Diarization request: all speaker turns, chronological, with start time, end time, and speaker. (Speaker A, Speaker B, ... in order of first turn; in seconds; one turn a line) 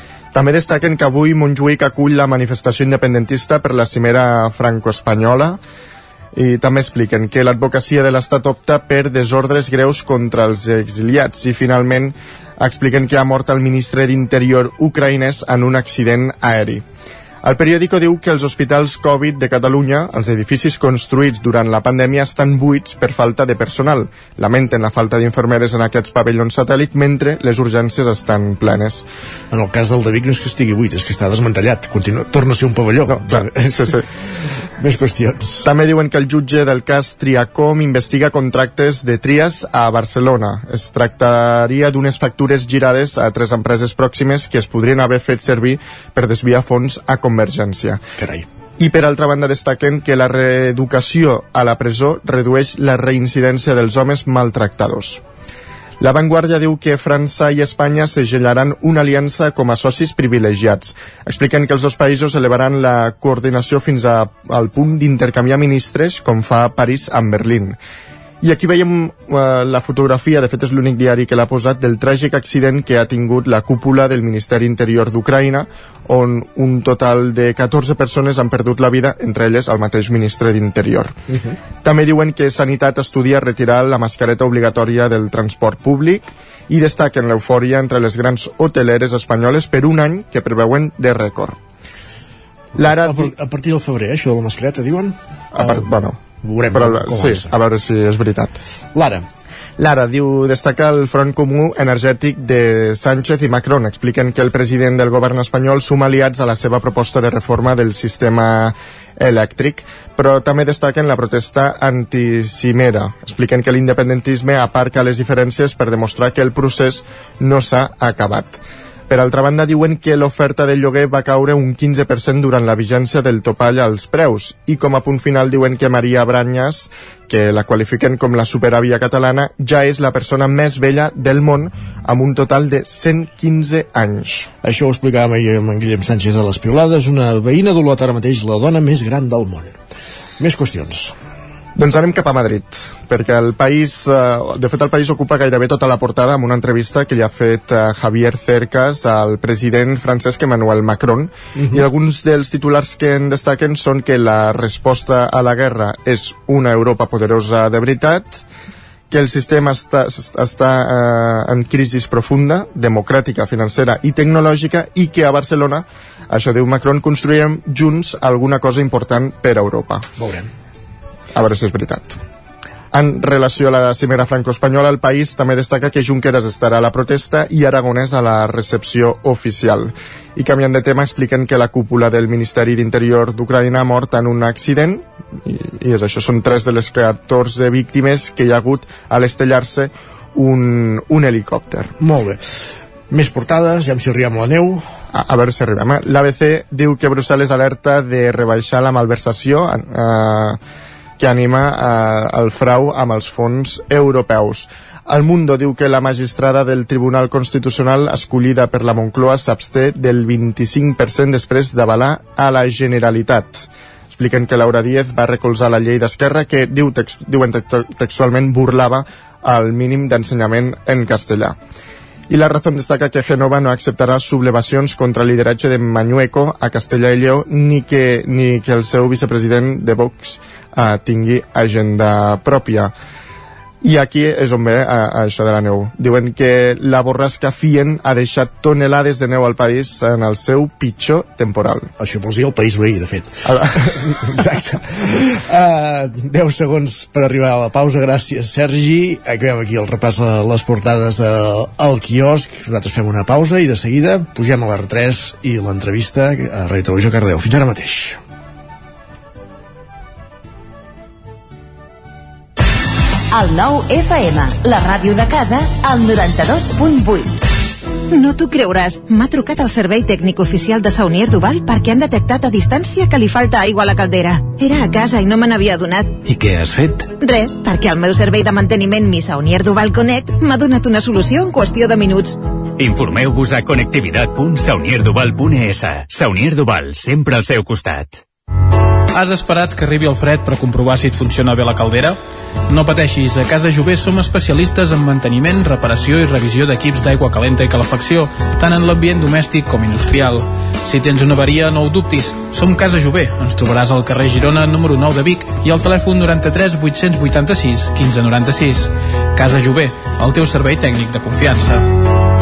Speaker A: 0.3-5.6
Speaker A: 6.3-16.8
Speaker A: 17.4-29.1
Speaker B: 29.5-34.0
Speaker A: 33.1-34.0
Speaker B: 34.8-35.7
Speaker A: 35.6-48.0
Speaker B: 48.2-48.5
Speaker A: 48.8-55.2
Speaker A: 56.0-67.8
Speaker A: 68.4-81.2
Speaker A: 81.8-91.6
Speaker A: 92.8-93.3
Speaker B: 92.8-95.9
Speaker A: 95.5-96.2
Speaker B: 96.4-97.5
Speaker A: 96.7-98.5
Speaker B: 99.0-99.2
Speaker A: 99.8-134.5
Speaker B: 134.6-139.7
Speaker B: 140.4-141.2
Speaker A: 141.8-158.4
Speaker B: 151.6-151.8
Speaker A: 159.1-170.1
Speaker B: 170.2-170.5
Speaker A: 171.3-172.2
Speaker A: 172.9-191.9
Speaker B: 192.0-194.8
Speaker A: 195.1-200.6
Speaker A: 201.2-221.6
Speaker A: 222.3-232.9
Speaker A: 233.8-241.9
Speaker B: 242.0-258.2
Speaker C: 263.3-265.4
Speaker D: 265.4-266.9
Speaker C: 266.6-267.2
Speaker D: 268.1-276.3
Speaker D: 277.1-282.4
Speaker E: 282.8-288.2
Speaker F: 289.1-311.9